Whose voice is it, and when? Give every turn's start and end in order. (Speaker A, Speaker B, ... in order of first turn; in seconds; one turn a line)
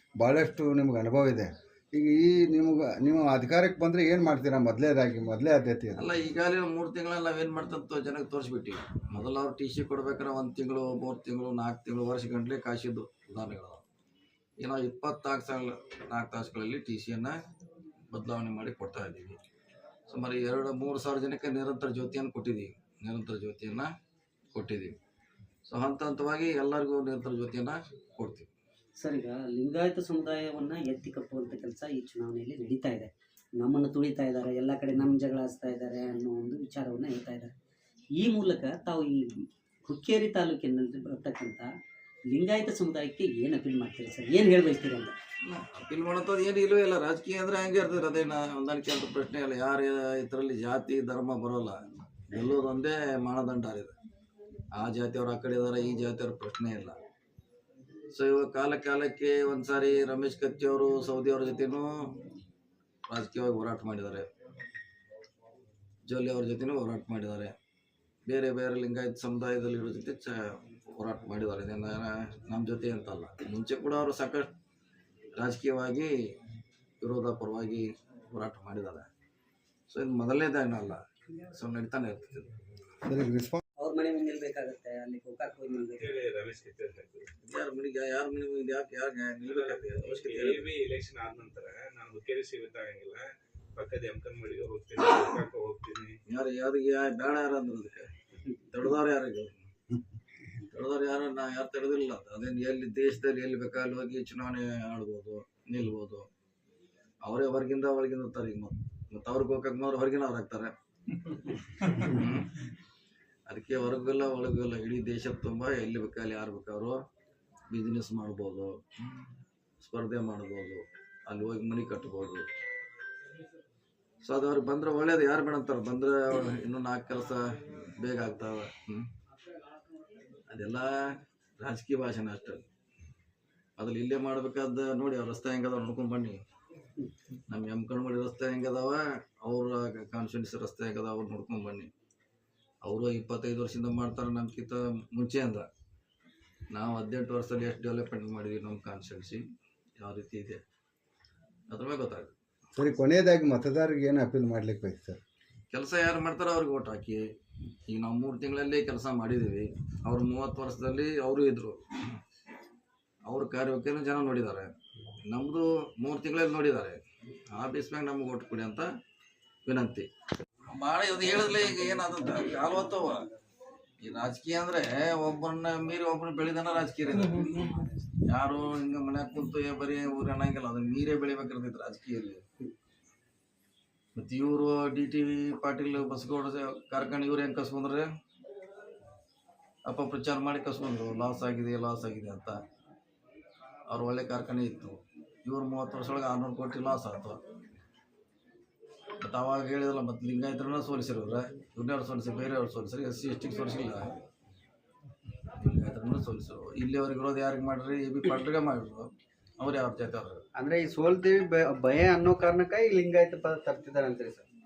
Speaker A: 0.2-6.0
Speaker B: 5.9-13.8
Speaker B: 14.6-17.4
Speaker B: 18.1-19.4
Speaker B: 20.1-23.9
Speaker B: 24.5-24.9
Speaker B: 25.6-28.5
Speaker C: 29.0-37.5
Speaker C: 38.2-41.7
Speaker C: 42.3-45.1
Speaker B: 45.5-54.0
Speaker B: 54.7-57.0
Speaker B: 58.1-61.9
Speaker B: 63.1-64.3
Speaker B: 66.0-67.5
Speaker B: 68.3-74.5
Speaker B: 75.4-76.1
Speaker B: 77.0-79.1
Speaker B: 79.9-82.5
Speaker A: 83.0-83.6
Speaker C: 83.8-86.1
Speaker D: 85.7-87.3
Speaker B: 87.4-90.7
Speaker D: 89.4-96.2
Speaker B: 96.3-98.1
Speaker B: 98.7-99.6
Speaker B: 100.7-106.2
Speaker B: 107.2-110.7
Speaker B: 111.8-112.5
Speaker B: 113.5-117.0
Speaker B: 117.7-119.2
Speaker B: 119.8-122.5
Speaker B: 124.2-127.4
Speaker B: 128.0-129.1
Speaker B: 130.5-130.9
Speaker B: 131.6-132.6
Speaker B: 133.8-136.4
Speaker B: 137.5-141.9
Speaker B: 142.8-145.7
Speaker B: 146.7-149.4
Speaker B: 150.0-150.6
Speaker B: 151.7-152.3
Speaker A: 152.8-155.2
Speaker B: 155.7-157.2
Speaker B: 157.9-161.8
Speaker B: 163.2-164.7
Speaker B: 165.2-167.0
Speaker B: 167.5-168.9
Speaker B: 169.7-170.1
Speaker B: 170.7-173.3
Speaker B: 174.0-177.7
Speaker B: 178.3-182.4
Speaker B: 184.2-188.1
Speaker B: 189.9-192.6
Speaker B: 193.9-197.4
Speaker B: 199.2-204.1
Speaker B: 205.6-210.4
Speaker E: 210.6-214.5